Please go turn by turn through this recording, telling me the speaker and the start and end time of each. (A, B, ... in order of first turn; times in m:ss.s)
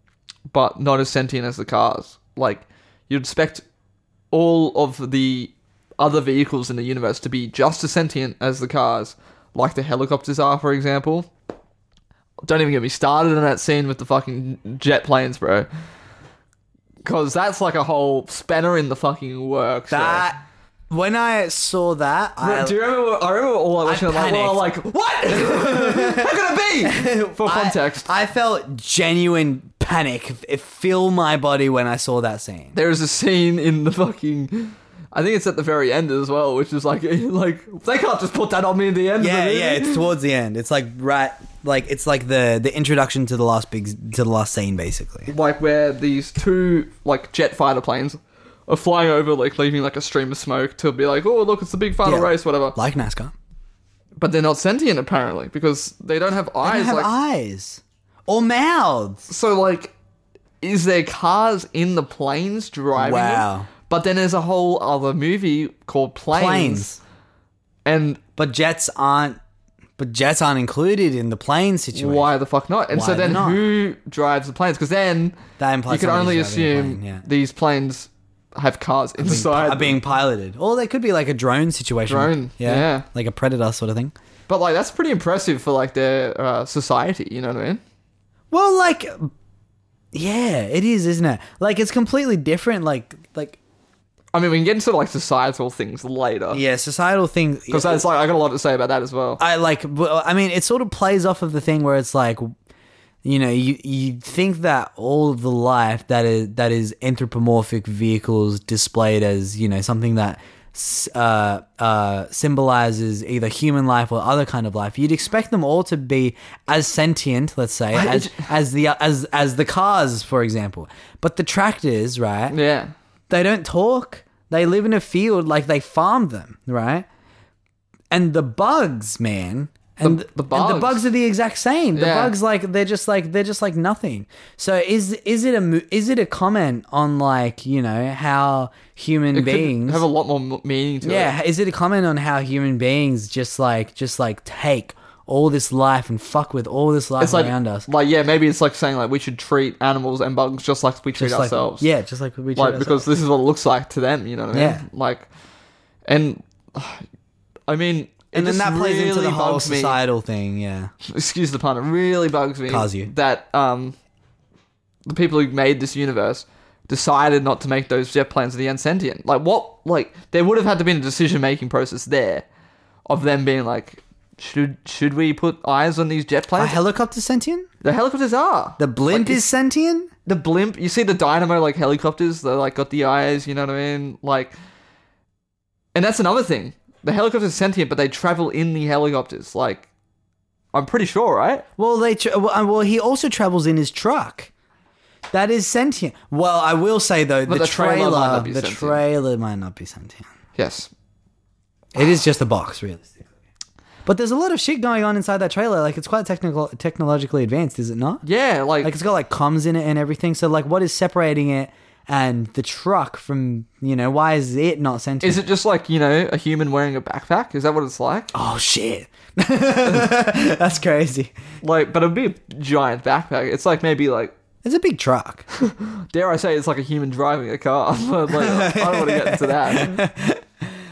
0:00.5-0:03.6 A
0:04.3-0:11.3 A
0:12.5-0:15.7 A
0:17.0-0:20.3 A
0:19.9-0:22.8 B
0:22.4-0:28.1 A
0:23.8-0:24.7 B
0:25.3-0:32.8 B
0:32.7-0:40.1 A
0:39.2-0:45.3 B
0:45.3-0:52.8 A
0:52.0-0:53.3 B
0:54.2-0:57.1 A
0:56.6-0:59.3 B
0:59.3-0:59.9 A
1:00.6-1:06.9 A
1:03.0-1:03.7 B
1:06.3-1:07.0 B
1:07.9-1:08.2 A
1:08.4-1:09.4 B
1:10.0-1:12.3 B
1:12.0-1:15.4 A
1:12.9-1:13.6 B
1:15.6-1:17.2 B
1:15.9-1:20.0 A
1:19.2-1:24.1 B
1:22.1-1:23.1 A
1:24.5-1:27.8 A
1:28.5-1:29.3 B
1:30.1-1:33.6 B
1:34.3-1:36.6 A
1:36.5-1:38.0 B
1:37.7-1:39.4 A
1:39.4-1:42.5 B
1:43.2-2:02.6 B
1:57.9-1:58.5 A
2:02.5-2:02.9 A
2:03.3-2:07.1 B
2:08.1-2:20.0 B
2:10.0-2:11.1 A
2:12.0-2:12.3 A
2:19.3-2:21.3 A
2:21.0-2:27.9 B
2:27.2-2:31.9 A
2:31.2-2:33.1 B
2:32.6-2:35.3 A
2:34.5-2:34.8 B
2:36.1-2:37.0 A
2:37.7-2:40.0 A
2:38.3-2:40.9 B
2:41.0-2:44.0 A
2:42.7-2:43.1 B
2:45.1-2:52.4 A
2:53.1-2:56.8 A
2:56.6-2:57.7 B
2:57.8-2:59.5 A
2:58.8-3:00.1 B
3:00.3-3:04.5 A
3:06.0-3:09.9 A
3:10.7-3:11.6 A
3:11.8-3:14.5 B
3:15.3-3:20.3 B
3:17.5-3:19.0 A
3:20.6-3:20.9 A
3:21.9-3:23.2 B
3:24.1-3:28.2 B
3:28.2-3:28.9 A
3:28.8-3:35.4 B
3:35.2-3:38.3 A
3:38.3-3:41.3 B
3:41.6-3:44.4 A
3:44.6-3:45.4 B
3:45.6-3:50.0 A
3:48.3-3:50.7 B